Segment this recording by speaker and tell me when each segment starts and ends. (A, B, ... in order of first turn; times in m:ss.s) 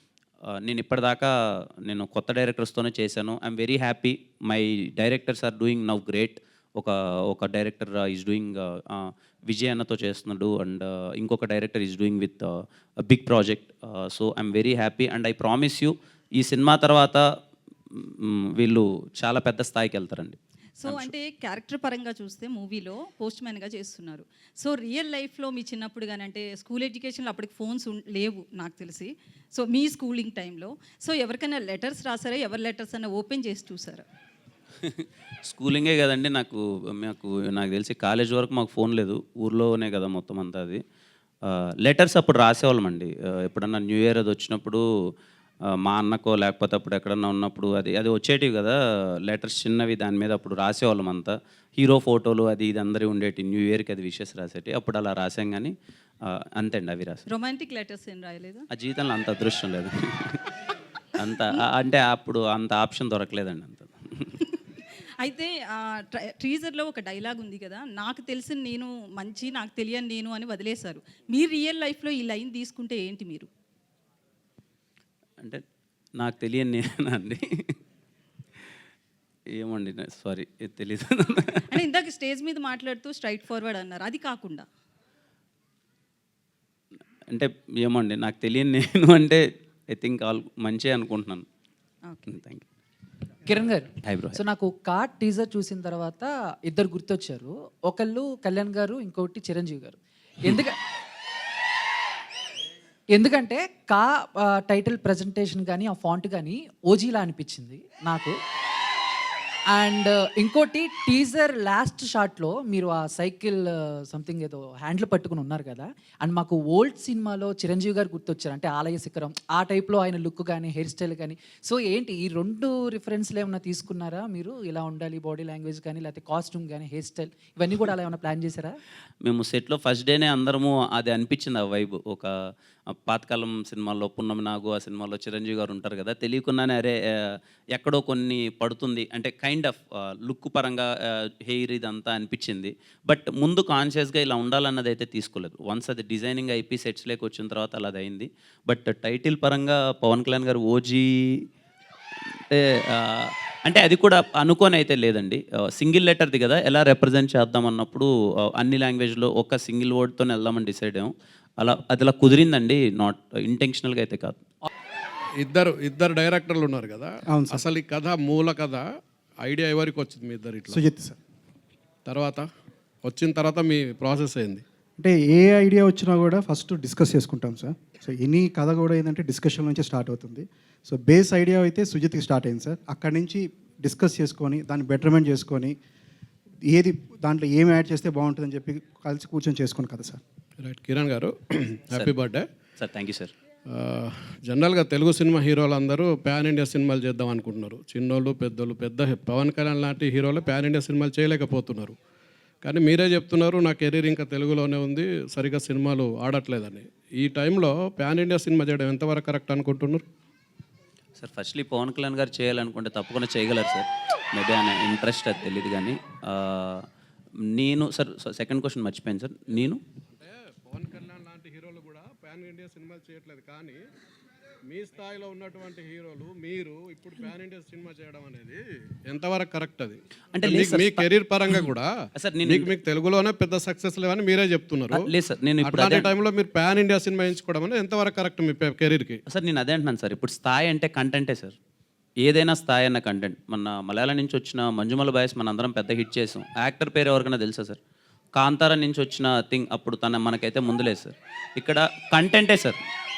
0:00.6-0:17.2 A
0:18.0-0:21.1 A
0:20.8-0:34.0 B
0:34.8-0:40.8 A
0:41.8-0:44.8 A
0:45.8-0:55.7 A
0:56.6-0:57.2 A
0:57.3-0:58.6 B
0:58.7-1:00.4 A
1:01.2-1:04.0 A
1:05.2-1:13.5 B
1:16.2-1:17.4 A
1:19.5-1:21.5 A
1:21.7-1:24.7 B
1:27.3-1:31.5 A
1:32.1-1:32.4 B
1:32.3-1:32.6 A
1:33.5-1:40.8 C
1:34.0-1:34.4 A
1:43.1-1:48.4 C
1:49.7-2:08.8 C
2:09.2-2:12.3 A
2:13.1-2:31.4 A
2:32.5-2:44.4 A
2:45.4-2:48.8 D
2:47.3-2:47.6 E
2:49.4-2:50.8 D
2:50.7-2:51.2 E
2:52.1-2:52.5 D
2:53.0-2:54.6 D
2:55.0-3:05.8 E
3:06.7-3:10.2 E
3:10.6-3:12.5 D
3:12.8-3:13.3 A
3:13.7-3:22.0 D
3:22.6-3:30.0 D
3:31.2-3:36.8 A
3:37.6-3:39.8 A
3:40.2-3:43.8 D
3:44.7-3:51.9 D
3:50.3-3:52.7 A
3:52.4-3:55.1 D
3:54.9-3:56.1 A
3:55.6-3:59.2 D
3:59.3-4:01.6 A
4:02.2-4:07.8 A
4:08.4-4:12.8 A